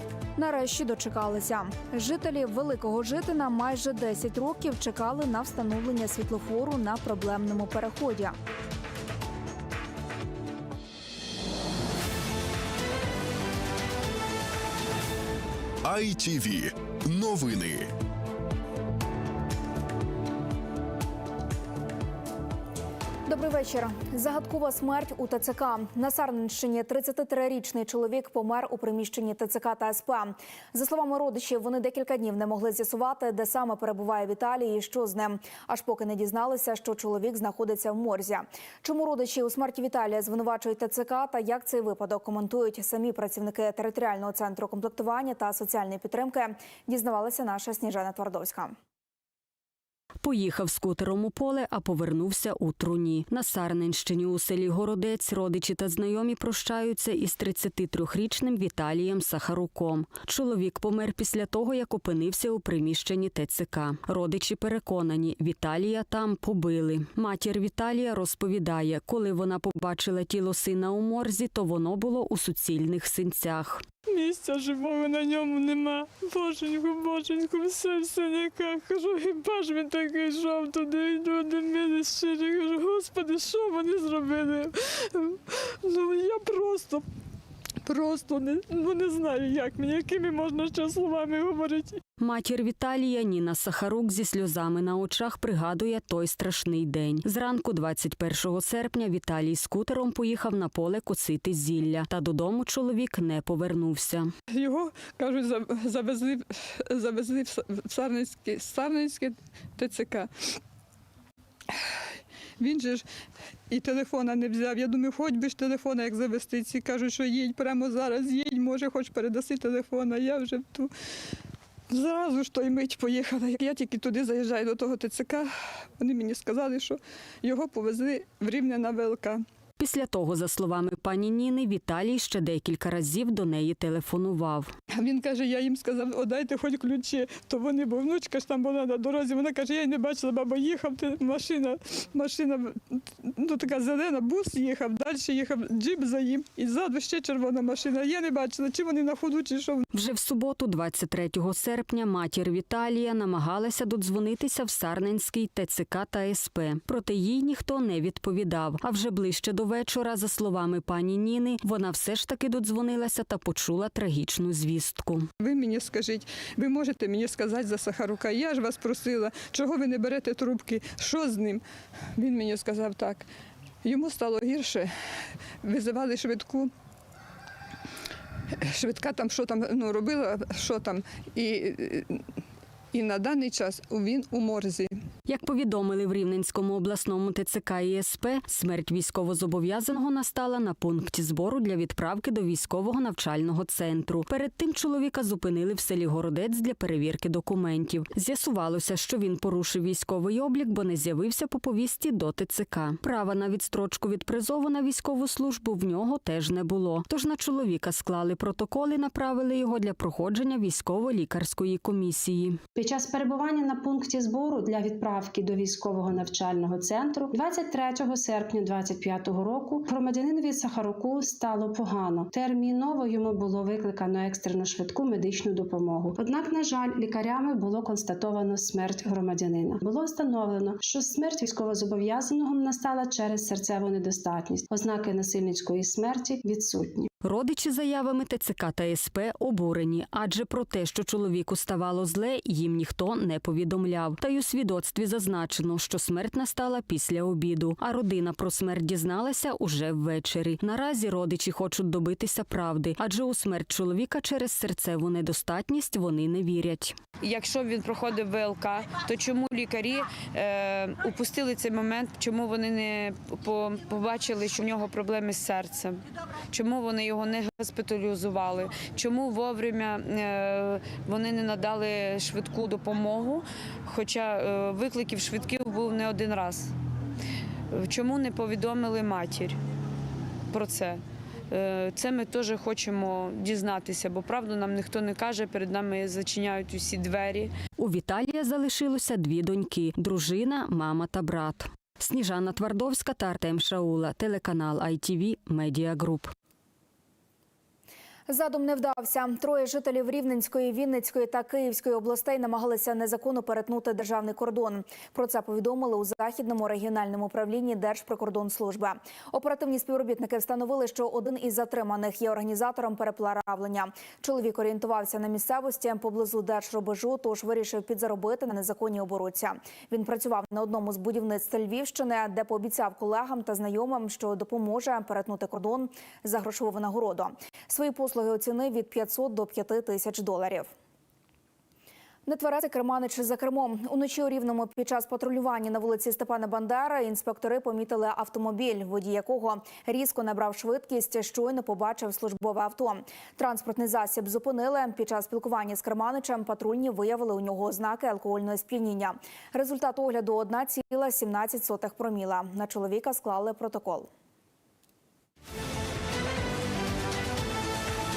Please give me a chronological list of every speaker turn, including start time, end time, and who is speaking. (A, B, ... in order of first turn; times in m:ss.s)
0:00.4-0:08.4 A
0:15.9-0:17.9 B
0:23.3-0:48.8 A
0:50.2-1:13.8 C
1:14.1-1:25.3 D
1:25.9-1:27.0 D
1:27.9-1:32.0 D
1:32.2-1:44.3 C
1:44.5-1:50.3 D
1:52.6-1:53.0 D
1:53.7-2:00.9 D
2:01.9-2:09.4 D
2:09.8-2:14.7 C
2:14.9-2:29.8 D
2:29.9-2:45.3 C
2:45.4-2:51.6 D
2:52.2-2:53.2 D
2:53.8-2:54.9 D
2:55.6-2:56.7 D
2:58.7-3:02.2 D
3:02.9-3:04.9 D
3:05.3-3:32.6 C
3:32.7-3:57.1 E
3:57.2-4:17.0 C
4:17.2-4:26.0 F
4:26.5-4:36.7 F
4:37.8-4:39.5 F
4:40.5-4:41.0 F
4:41.5-4:47.5 F
4:47.8-4:56.3 C
4:58.3-5:30.7 A
5:32.2-5:54.1 A